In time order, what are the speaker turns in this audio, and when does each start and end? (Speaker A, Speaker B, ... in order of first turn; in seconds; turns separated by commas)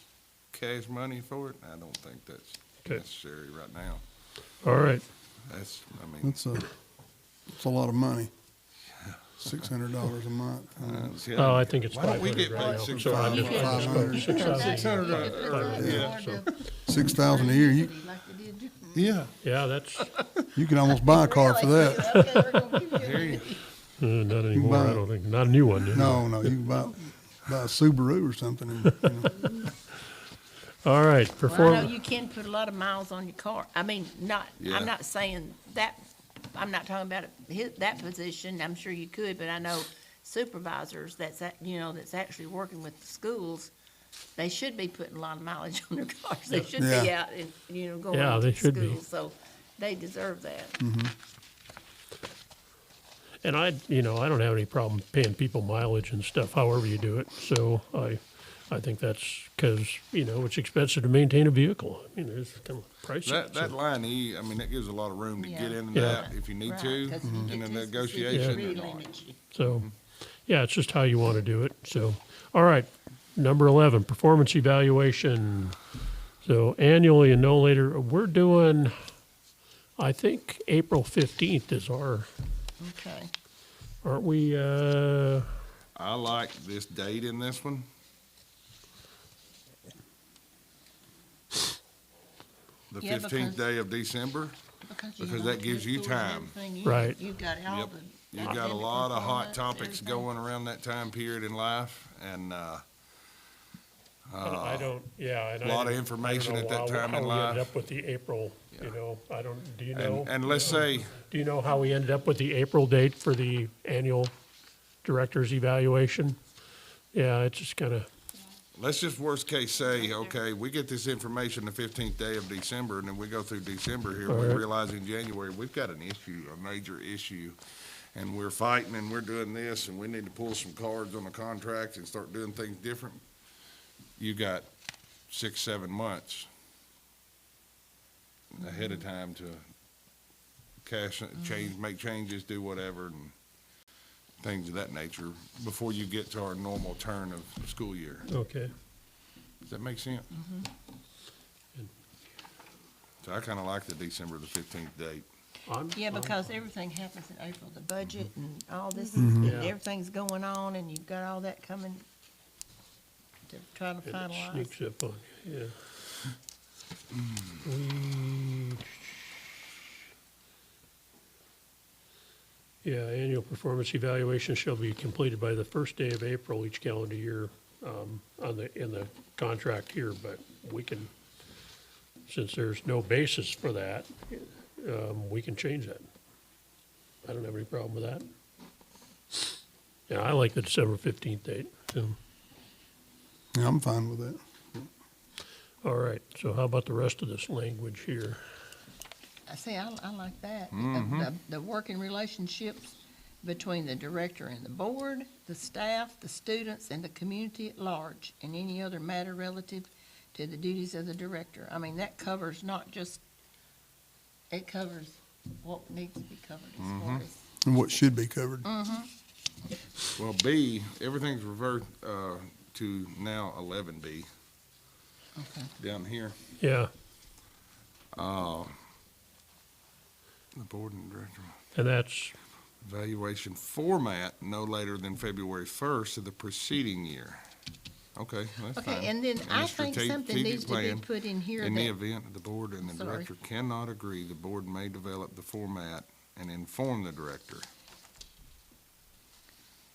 Speaker A: 0.5-4.0, Speaker B: 4.6-5.0, Speaker A: 5.5-6.4, Speaker C: 6.2-6.7, Speaker C: 7.5-8.3, Speaker C: 9.4-11.2, Speaker A: 10.8-16.6, Speaker B: 11.3-16.4, Speaker D: 12.5-19.1, Speaker C: 13.0-14.7, Speaker C: 15.8-16.1, Speaker C: 16.9-17.9, Speaker A: 18.9-19.3, Speaker B: 19.4-20.1, Speaker C: 20.5-22.1, Speaker D: 20.9-23.6, Speaker B: 22.1-22.5, Speaker A: 22.9-23.5, Speaker B: 24.0-26.2, Speaker C: 24.5-25.0, Speaker C: 25.9-29.4, Speaker B: 29.0-29.7, Speaker B: 30.8-31.9, Speaker D: 31.4-43.7, Speaker A: 34.6-34.9, Speaker D: 44.4-50.8, Speaker C: 46.8-47.1, Speaker B: 48.1-49.0, Speaker C: 50.8-51.1, Speaker B: 53.4-63.8, Speaker A: 63.2-69.0, Speaker D: 65.3-69.4, Speaker B: 65.9-66.3, Speaker C: 67.2-67.5, Speaker B: 68.3-68.7, Speaker B: 69.5-69.9, Speaker B: 70.5-75.8, Speaker B: 76.4-79.0, Speaker B: 80.0-82.3, Speaker D: 82.8-83.3, Speaker B: 84.0-85.5, Speaker A: 85.9-87.8, Speaker A: 92.9-94.6, Speaker D: 93.0-93.6, Speaker D: 94.8-100.3, Speaker A: 95.2-96.5, Speaker B: 96.8-97.2, Speaker A: 97.7-102.8, Speaker A: 104.3-104.9, Speaker B: 104.4-114.3, Speaker A: 105.6-107.7, Speaker A: 109.9-111.2, Speaker B: 115.0-116.4, Speaker B: 117.1-118.1, Speaker A: 118.7-127.6, Speaker B: 124.3-124.6, Speaker A: 128.1-133.2, Speaker A: 134.2-134.7, Speaker A: 135.3-136.5, Speaker A: 138.5-139.6, Speaker A: 140.8-143.3, Speaker A: 144.4-148.3, Speaker B: 148.3-148.7, Speaker A: 149.6-150.3, Speaker D: 150.3-150.7, Speaker A: 153.2-155.2, Speaker B: 155.7-156.5, Speaker D: 155.9-162.0, Speaker C: 159.2-159.5, Speaker B: 159.2-159.7, Speaker D: 163.5-164.7, Speaker B: 164.0-165.7, Speaker B: 167.6-169.1, Speaker B: 172.8-181.1, Speaker B: 182.3-186.1, Speaker B: 187.2-188.2, Speaker B: 190.1-192.2, Speaker C: 193.5-194.8, Speaker B: 195.8-198.4, Speaker D: 199.5-213.2, Speaker A: 200.7-201.3, Speaker D: 214.5-217.4, Speaker A: 216.8-217.2, Speaker C: 217.6-218.7, Speaker D: 218.6-219.1, Speaker A: 220.1-224.3, Speaker D: 225.3-225.7, Speaker A: 225.8-226.3, Speaker B: 226.6-226.9, Speaker A: 228.1-228.7, Speaker A: 230.5-231.6, Speaker B: 231.7-232.3, Speaker A: 232.8-237.4, Speaker A: 238.2-241.1, Speaker D: 238.7-241.9, Speaker A: 241.6-247.7, Speaker D: 242.8-243.3